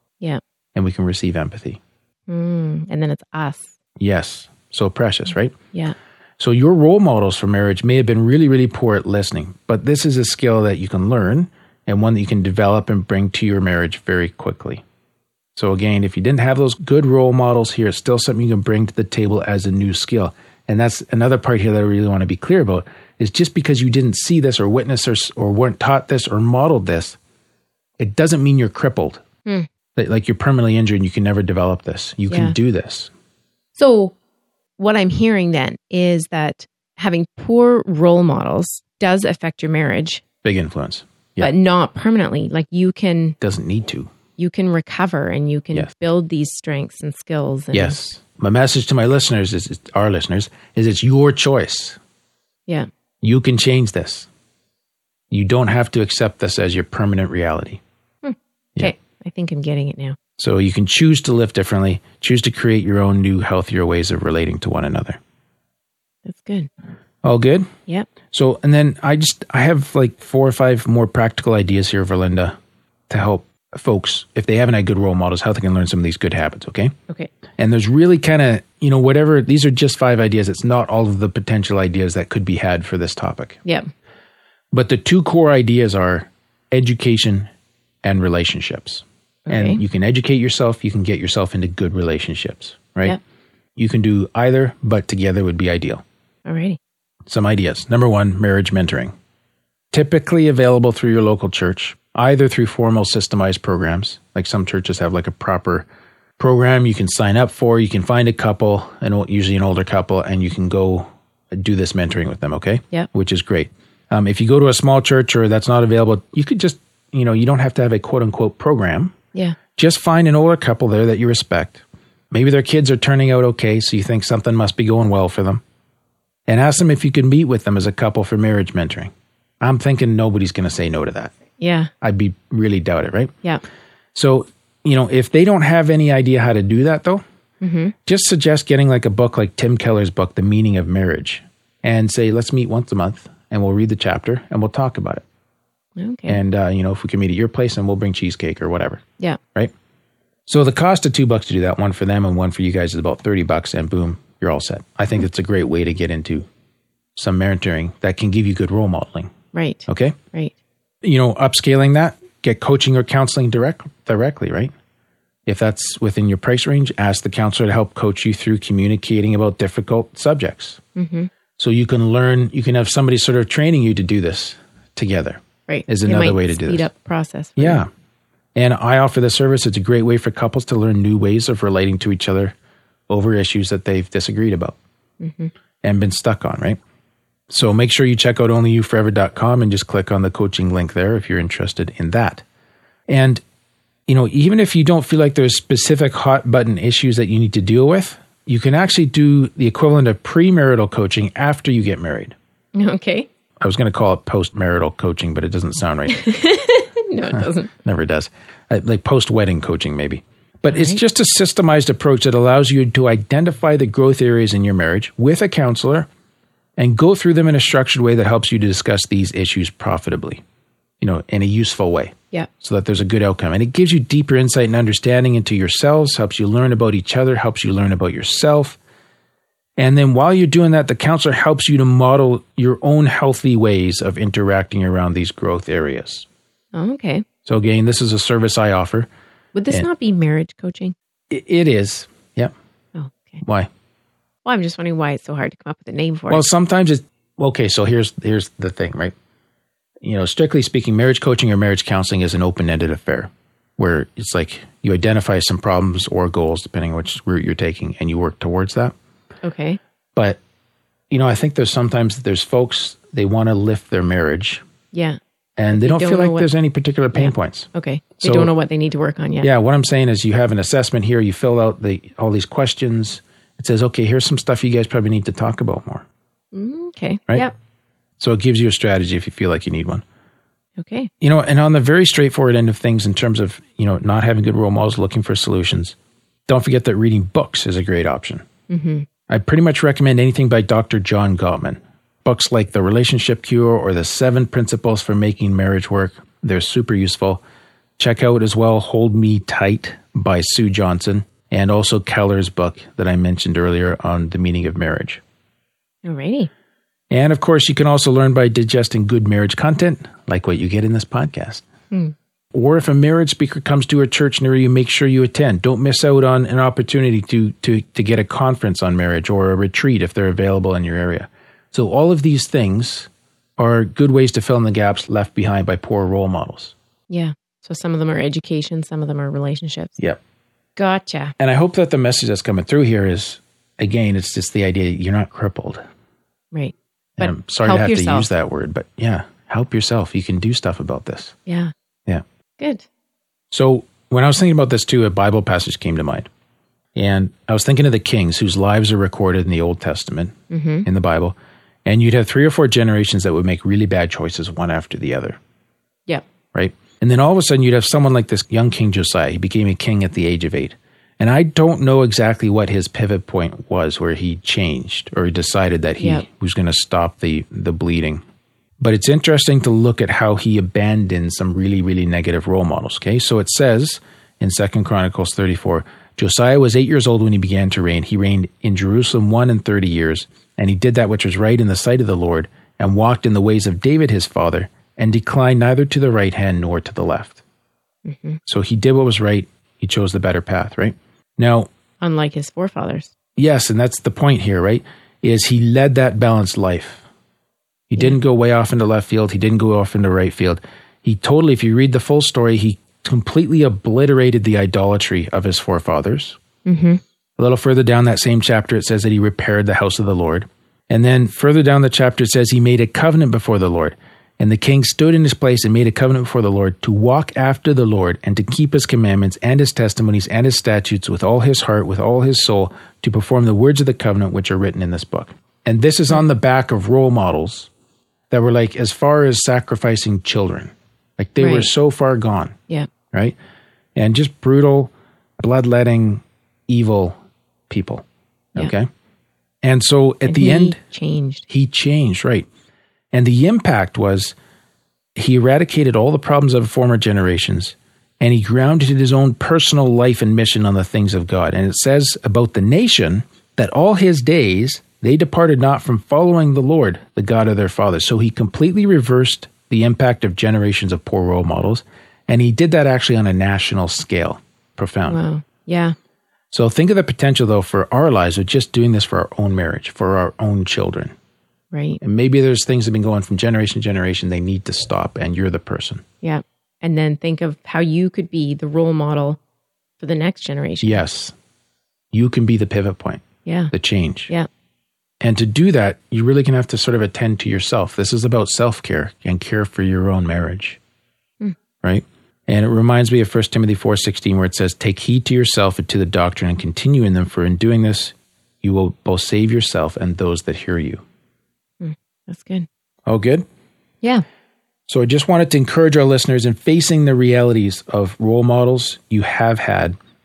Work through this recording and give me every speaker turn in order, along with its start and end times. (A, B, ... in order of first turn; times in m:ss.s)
0:00.8-0:01.8 A
0:02.3-0:03.8 B
0:04.0-0:05.6 A
0:06.4-0:14.8 A
0:15.6-0:27.2 A
0:28.0-0:29.2 A
0:30.0-0:33.1 A
0:32.3-0:32.6 B
0:33.8-0:34.1 B
0:34.8-0:40.2 B
0:40.4-0:41.5 A
0:41.4-0:43.4 B
0:43.4-0:44.1 A
0:44.4-0:48.0 B
0:47.7-0:52.0 A
0:53.2-0:54.3 A
0:55.3-0:57.8 A
0:58.2-1:00.2 B
1:00.4-1:05.2 A
1:06.2-1:06.7 B
1:07.2-1:07.7 A
1:08.3-1:12.6 A
1:13.1-1:16.9 A
1:17.6-1:23.6 A
1:24.7-1:27.5 A
1:28.0-1:33.2 A
1:29.5-1:29.8 B
1:33.8-1:36.0 A
1:36.5-1:36.8 B
1:37.3-1:39.1 A
1:39.9-1:45.9 A
1:46.4-1:59.2 A
1:59.8-2:05.6 A
2:06.5-2:11.3 A
2:11.6-2:11.9 B
2:12.0-2:13.3 A
2:14.1-2:17.2 A
2:17.6-2:18.0 B
2:18.0-2:25.2 A
2:26.0-2:26.4 B
2:26.3-2:29.0 A
2:30.5-2:36.5 A
2:37.2-2:39.3 A
2:39.5-2:40.5 B
2:39.9-2:40.2 A
2:41.0-2:44.7 A
2:45.5-2:50.8 A
2:51.0-2:51.3 B
2:51.6-2:56.9 A
2:55.7-2:57.8 B
2:57.6-2:57.9 A
2:58.6-3:02.6 A
3:03.1-3:04.8 A
3:05.2-3:05.5 B
3:05.8-3:06.8 A
3:07.5-3:12.4 A
3:13.1-3:13.4 A
3:14.1-3:22.4 A
3:22.8-3:23.3 B
3:23.6-3:26.3 A
3:26.1-3:27.7 B
3:27.3-3:36.1 A
3:30.7-3:31.0 B
3:36.8-3:40.4 A
3:41.0-3:48.8 A
3:49.8-3:56.3 A
3:56.7-3:57.2 B
3:57.4-3:59.1 A
3:59.6-4:01.0 B
4:01.3-4:02.5 A
4:03.0-4:03.4 B
4:03.4-4:03.7 A
4:04.4-4:06.5 B
4:06.3-4:09.1 A
4:10.0-4:19.0 A
4:19.4-4:19.8 B
4:20.2-4:20.4 A
4:21.1-4:24.6 A
4:24.9-4:25.2 B
4:25.6-4:27.7 A
4:25.7-4:26.5 B
4:27.1-4:29.5 B
4:28.2-4:28.5 A
4:29.4-4:36.1 A
4:36.5-4:37.5 B
4:38.2-4:40.0 A
4:40.8-4:41.1 B
4:41.2-4:46.0 A
4:46.5-4:48.4 A
4:48.7-4:49.1 B
4:49.3-4:57.4 A
4:58.0-5:05.2 A
5:06.0-5:06.5 B
5:07.1-5:11.6 A
5:12.5-5:26.8 A
5:27.1-5:30.0 B
5:30.8-5:31.3 B
5:31.4-5:35.8 A
5:36.5-5:38.3 B
5:37.2-5:41.4 A
5:41.5-5:41.7 B
5:42.6-5:42.9 B
5:43.5-5:46.3 A
5:47.0-5:55.4 A
5:50.5-5:50.9 B
5:56.5-6:08.2 A
6:06.0-6:06.2 B
6:08.8-6:27.4 A
6:28.1-6:28.4 B
6:28.5-6:31.7 A
6:32.0-6:33.1 B
6:33.4-6:37.0 A
6:37.9-6:46.4 A
6:46.7-6:47.0 B
6:47.4-7:07.7 A
7:08.3-7:12.6 A
7:11.4-7:11.7 B
7:13.1-7:13.4 A
7:14.0-7:17.2 A
7:17.7-7:18.9 A
7:19.6-7:20.8 A
7:20.3-7:21.4 B
7:21.5-7:22.5 A
7:23.1-7:24.4 A
7:25.2-7:45.2 A
7:45.1-7:46.0 B
7:46.5-7:51.1 A
7:51.7-7:52.0 B
7:52.0-7:56.0 A
7:56.2-7:59.4 B
8:00.0-8:01.0 B
8:00.8-8:01.3 A
8:02.1-8:04.3 A
8:03.4-8:03.7 B
8:05.2-8:10.8 A
8:11.8-8:21.0 A
8:21.8-8:22.7 B
8:23.1-8:23.4 A
8:24.9-8:30.0 A